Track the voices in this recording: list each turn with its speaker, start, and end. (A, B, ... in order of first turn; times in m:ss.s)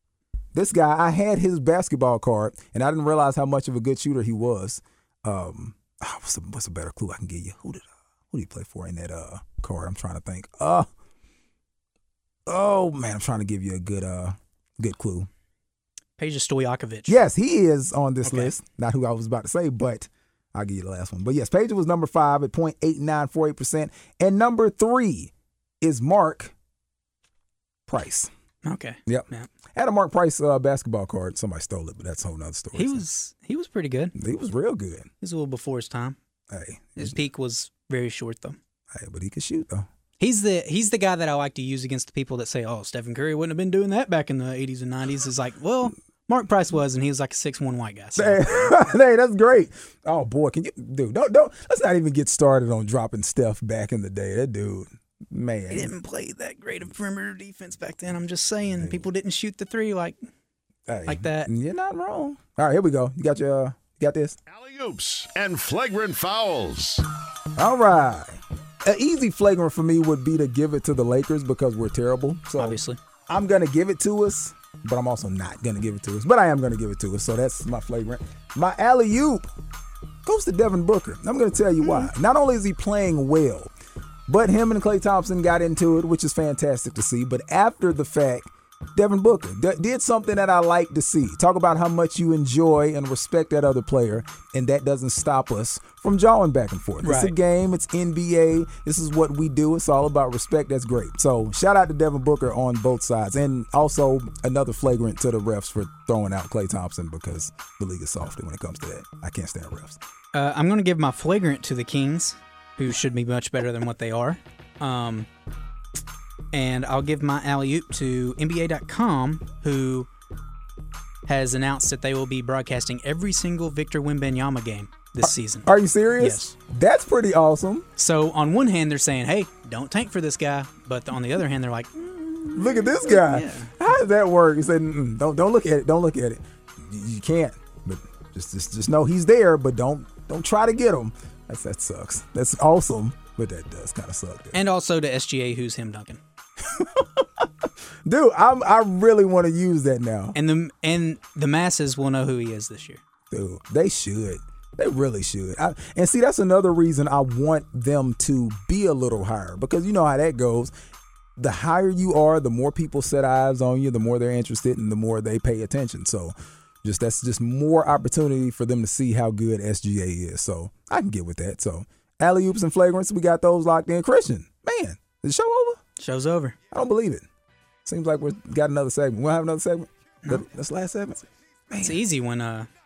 0:00.6-0:10.9 A
0:12.5-0:15.3 A
0:16.2-0:17.2 B
0:17.1-0:26.5 A
0:18.2-0:18.5 B
0:27.9-0:28.3 A
0:28.6-0:29.5 B
0:29.1-0:33.0 A
0:32.7-0:34.2 B
0:34.2-0:35.1 A
0:35.2-0:36.2 B
0:36.5-0:37.2 A
0:37.0-0:38.6 B
0:38.9-0:39.9 A
0:40.2-0:48.7 B
0:48.2-0:55.9 A
0:55.7-1:00.2 B
0:58.7-0:59.0 A
1:00.9-1:04.4 A
1:01.1-1:01.5 B
1:04.5-1:07.0 C
1:07.6-1:19.5 A
1:12.6-1:13.0 B
1:20.2-1:23.7 A
1:21.8-1:22.1 B
1:24.3-1:50.0 A
1:37.0-1:37.4 B
1:50.3-1:55.3 B
1:56.5-2:00.1 B
2:01.3-2:06.5 B
2:05.2-2:07.9 A
2:08.0-2:13.8 B
2:12.5-2:24.6 A
2:24.5-2:26.2 B
2:26.6-2:30.4 A
2:30.4-2:33.0 B
2:33.3-2:40.7 A
2:41.4-2:55.8 A
2:56.0-2:56.6 B
2:56.7-2:57.3 A
2:57.8-3:02.0 A
3:01.8-3:02.7 B